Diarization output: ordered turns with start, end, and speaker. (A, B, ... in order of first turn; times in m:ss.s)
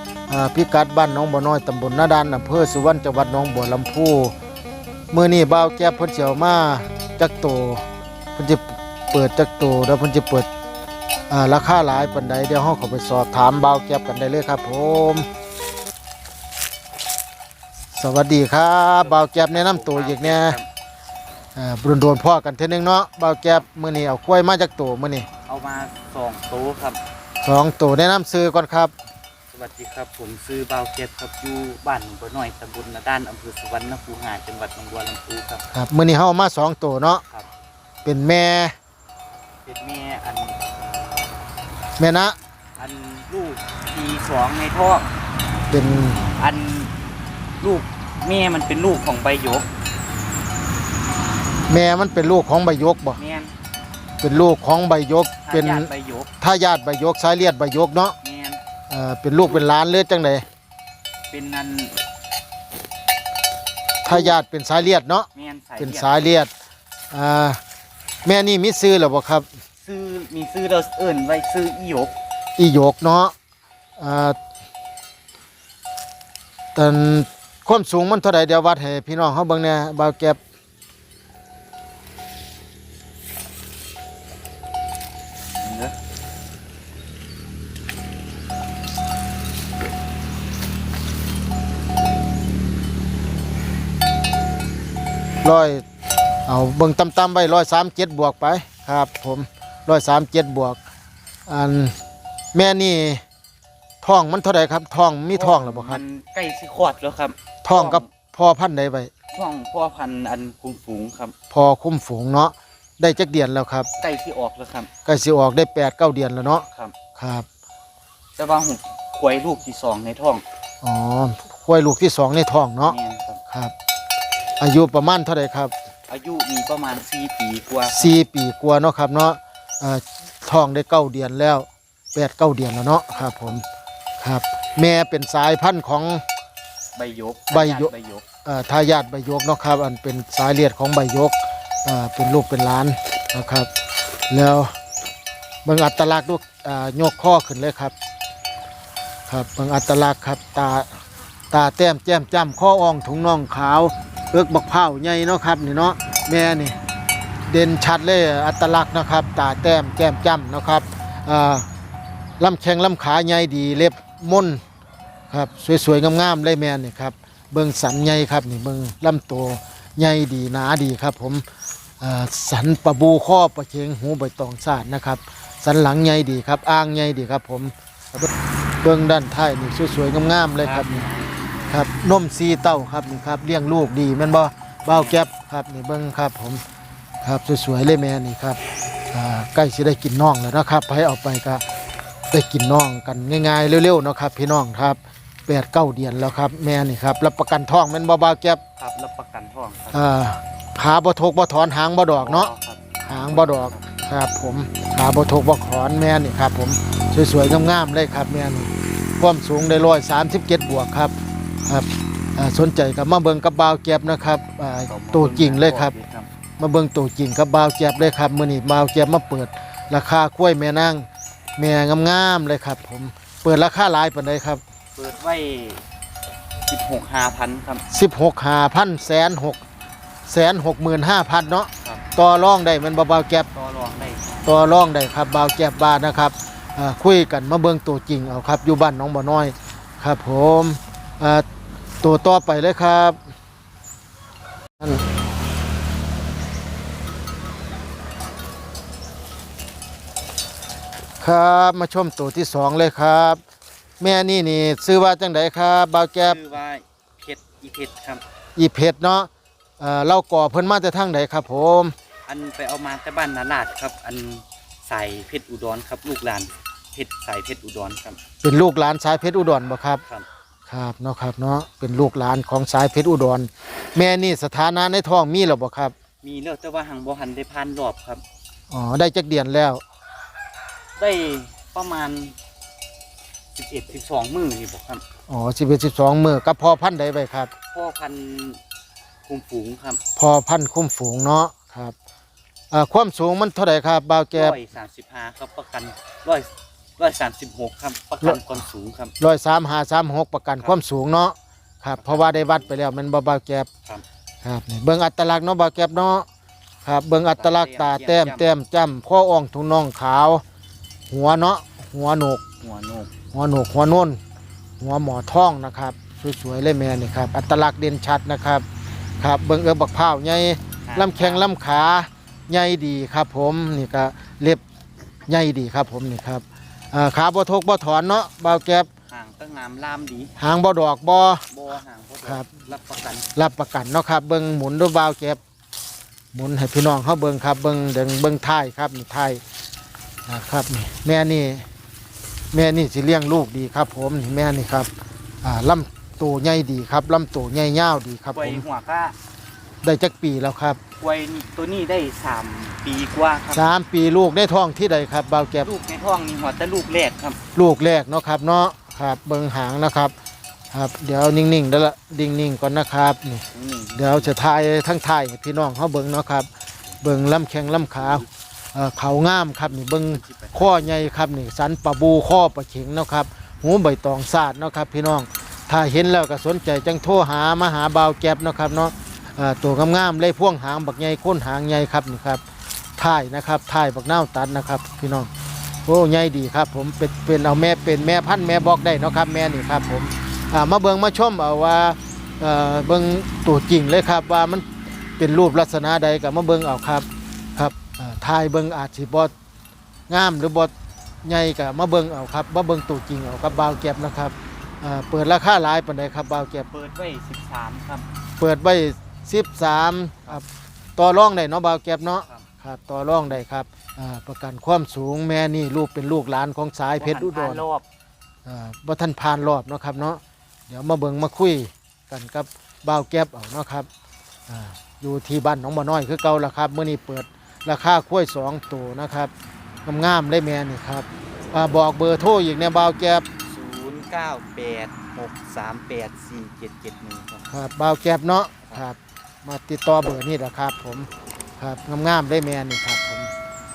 0:00.3-0:04.3 A
0:05.1-0:07.8 A
0:08.4-0:10.5 A
0:11.3-0:15.3 A
0:17.9-0:20.6 A
0:19.0-0:20.7 B
0:21.6-0:25.3 A
0:25.5-0:27.0 B
0:27.4-0:28.9 A
0:29.5-0:35.6 B
0:35.7-0:37.2 A
0:38.0-0:38.7 A
0:39.6-0:40.6 B
0:42.0-0:42.4 A
0:42.8-0:45.1 B
0:45.7-0:46.2 A
0:46.4-0:46.9 B
0:47.6-0:49.7 B
0:51.7-0:53.2 A
0:53.2-0:53.5 B
0:54.2-0:55.9 A
0:55.4-0:56.3 B
0:56.4-0:58.2 A
0:58.2-0:58.6 B
0:58.9-1:00.4 A
1:01.3-1:02.0 B
1:04.0-1:04.4 B
1:04.0-1:05.3 A
1:05.3-1:06.2 B
1:05.8-1:06.5 A
1:07.1-1:07.6 A
1:08.2-1:09.4 A
1:09.8-1:12.1 B
1:12.6-1:13.3 A
1:14.0-1:14.4 A
1:16.7-1:20.4 A
1:25.6-1:25.9 B
1:35.4-1:35.8 A
1:36.5-1:40.8 A
1:41.5-1:41.9 A
1:42.5-1:43.2 A
1:44.0-1:46.0 A
1:45.3-1:48.1 B
1:47.6-1:49.1 A
1:49.3-1:51.3 B
1:51.5-1:53.9 A
1:54.0-1:54.9 B
1:55.0-1:57.4 A
1:56.6-1:56.9 B
1:58.4-2:00.4 B
2:00.8-2:03.0 A
2:02.8-2:03.4 B
2:04.6-2:05.7 A
2:06.1-2:08.1 B
2:07.9-2:13.6 A
2:14.2-2:16.2 A
2:17.0-2:18.2 B
2:17.5-2:17.9 A
2:18.4-2:23.7 A
2:24.3-2:24.7 A
2:25.6-2:27.9 A
2:29.3-2:30.9 A
2:31.5-2:36.8 A
2:37.5-2:41.7 A
2:42.4-2:44.6 A
2:45.3-2:51.4 A
2:52.0-2:57.7 A
2:58.8-3:01.0 A
3:00.5-3:01.3 B
3:01.7-3:06.6 A
3:04.9-3:05.2 B
3:07.2-3:08.6 A
3:09.1-3:11.6 A
3:12.3-3:18.6 A
3:18.8-3:20.0 B
3:19.9-3:22.5 A
3:22.2-3:23.9 B
3:23.0-3:31.1 A
3:31.6-3:35.9 A
3:34.9-3:36.3 B
3:36.6-3:44.6 A
3:45.0-3:45.8 B
3:46.7-3:47.8 B
3:47.9-3:49.6 A
3:50.3-3:53.5 A
3:53.5-3:54.3 B
3:54.4-4:01.4 A
4:02.0-4:03.2 A
4:11.2-4:13.4 A
4:14.0-4:16.4 A
4:16.2-4:18.2 B
4:18.6-4:21.9 A
4:22.3-4:28.2 B
4:28.4-4:30.0 A
4:30.7-4:35.9 A
4:36.2-4:38.2 B
4:38.7-4:39.8 A
4:41.0-4:42.3 B
4:43.5-4:45.0 B
4:45.3-4:47.5 A
4:47.7-4:48.6 B
4:49.2-4:50.0 B
4:50.2-4:51.9 A
4:52.7-4:54.6 A
4:54.3-4:59.1 B
4:58.2-4:58.6 A
4:59.2-5:03.7 A
5:02.0-5:02.7 B
5:04.4-5:06.2 A
5:06.8-5:10.4 A
5:07.3-5:08.5 B
5:11.1-5:12.4 A
5:12.6-5:13.1 B
5:13.3-5:14.2 A
5:14.8-5:18.6 A
5:19.2-5:24.6 A
5:20.8-5:21.5 B
5:25.3-5:28.9 A
5:29.1-5:30.3 B
5:30.4-5:31.4 A
5:31.5-5:33.3 B
5:33.3-5:35.4 A
5:36.3-5:39.4 A
5:40.3-5:41.6 A
5:42.5-5:44.9 A
5:45.4-5:48.6 A
5:48.3-5:49.1 B
5:49.8-5:50.8 A
5:51.0-5:53.6 B
5:53.5-5:55.7 A
5:55.6-5:57.4 B
5:57.5-6:00.1 A
6:00.7-6:03.4 A
6:03.5-6:04.4 B
6:04.0-6:06.5 A
6:07.0-6:22.4 A
6:07.7-6:08.3 B
6:09.6-6:10.9 B
6:23.0-6:25.3 A
6:25.8-6:34.6 A
6:35.2-6:39.3 A
6:40.1-6:40.7 A
6:41.2-6:46.7 A
6:46.7-6:48.0 B
6:48.4-6:50.4 A
6:51.0-6:57.6 A
6:52.2-6:52.4 B
6:57.0-6:57.8 B
6:58.4-7:03.9 A
7:04.5-7:09.3 A
7:09.8-7:13.2 A
7:13.4-7:17.5 B
7:17.5-7:23.3 A